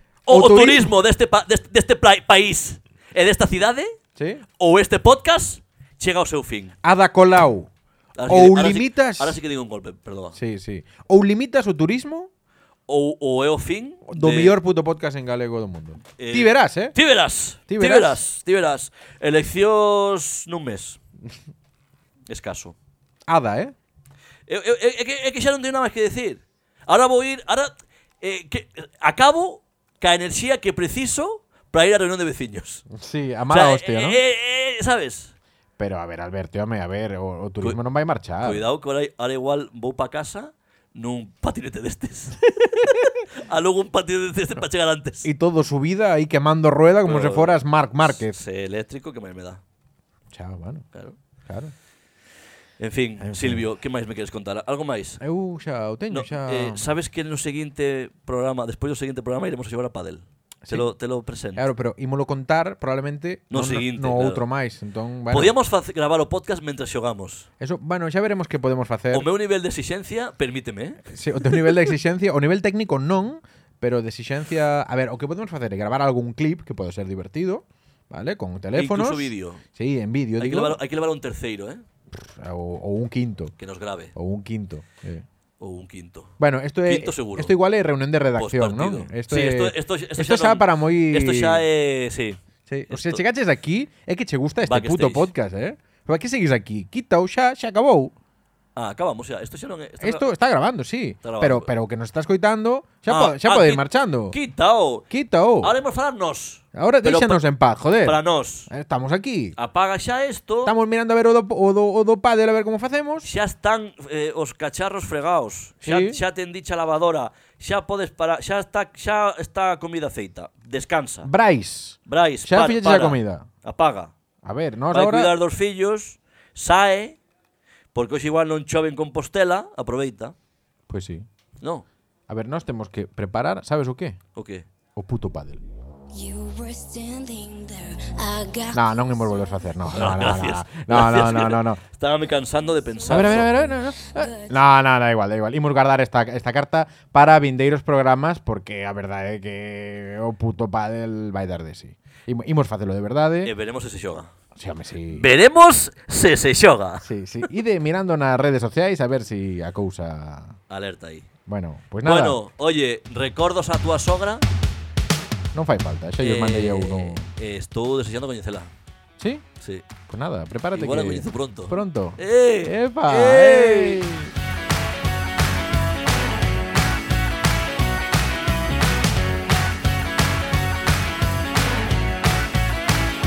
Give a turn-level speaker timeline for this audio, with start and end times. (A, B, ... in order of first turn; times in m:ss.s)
0:00.2-0:04.0 A
0:00.3-0:00.9 B
0:04.2-0:04.4 B
0:04.6-0:06.7 A
0:06.8-0:07.7 B
0:08.1-0:10.4 A
0:08.3-0:09.4 B
0:10.3-0:12.3 B
0:12.9-0:14.6 A
0:14.1-0:17.0 B
0:16.0-0:21.0 A
0:17.7-0:18.2 B
0:22.3-0:22.8 A
0:23.3-0:23.7 B
0:24.5-0:32.8 A
0:32.9-0:34.2 B
0:33.5-0:35.3 A
0:35.8-0:38.6 B
0:38.4-0:45.3 A
0:42.6-0:43.2 B
0:45.2-0:48.4 B
0:47.0-0:49.6 A
0:50.3-0:50.8 B
0:51.5-0:51.7 B
0:52.8-0:55.2 A
0:53.2-0:53.7 B
0:55.2-0:56.8 B
0:56.1-1:01.7 A
1:01.5-1:05.5 B
1:03.5-1:04.4 A
1:05.3-1:07.5 A
1:07.6-1:09.3 B
1:09.1-1:11.8 A
1:11.1-1:20.8 B
1:18.7-1:19.6 A
1:20.4-1:21.8 A
1:22.1-1:23.5 B
1:23.6-1:24.1 A
1:24.1-1:25.2 B
1:25.6-1:26.3 A
1:26.4-1:31.6 B
1:26.8-1:27.6 A
1:28.4-1:33.2 A
1:32.7-1:38.1 B
1:34.6-1:35.3 A
1:38.8-1:40.3 A
1:40.0-1:44.4 B
1:41.2-1:41.7 A
1:43.1-1:45.0 A
1:45.1-1:45.7 B
1:45.6-1:47.4 A
1:46.7-1:49.5 B
1:48.0-1:48.7 A
1:49.6-1:50.7 A
1:50.6-1:53.3 B
1:53.2-2:01.3 A
1:55.8-1:56.2 B
2:01.2-2:03.5 B
2:02.1-2:04.1 A
2:04.4-2:05.3 B
2:04.9-2:07.2 A
2:07.9-2:10.3 A
2:10.9-2:11.2 B
2:11.6-2:11.8 A
2:12.3-2:14.2 B
2:14.3-2:14.6 A
2:15.0-2:15.6 B
2:16.1-2:19.7 C
2:18.7-2:21.8 B
2:19.8-2:23.8 A
2:23.1-2:33.5 B
2:24.1-2:24.6 C
2:33.4-2:34.3 A
2:34.6-2:35.3 B
2:35.1-2:37.0 A
2:37.0-2:40.6 B
2:40.7-2:41.3 A
2:41.5-2:42.4 B
2:42.0-2:44.4 A
2:45.5-2:47.2 B
2:46.2-2:48.7 A
2:49.2-2:49.4 B
2:49.6-2:49.8 A
2:50.1-2:54.3 B
2:50.7-2:54.1 A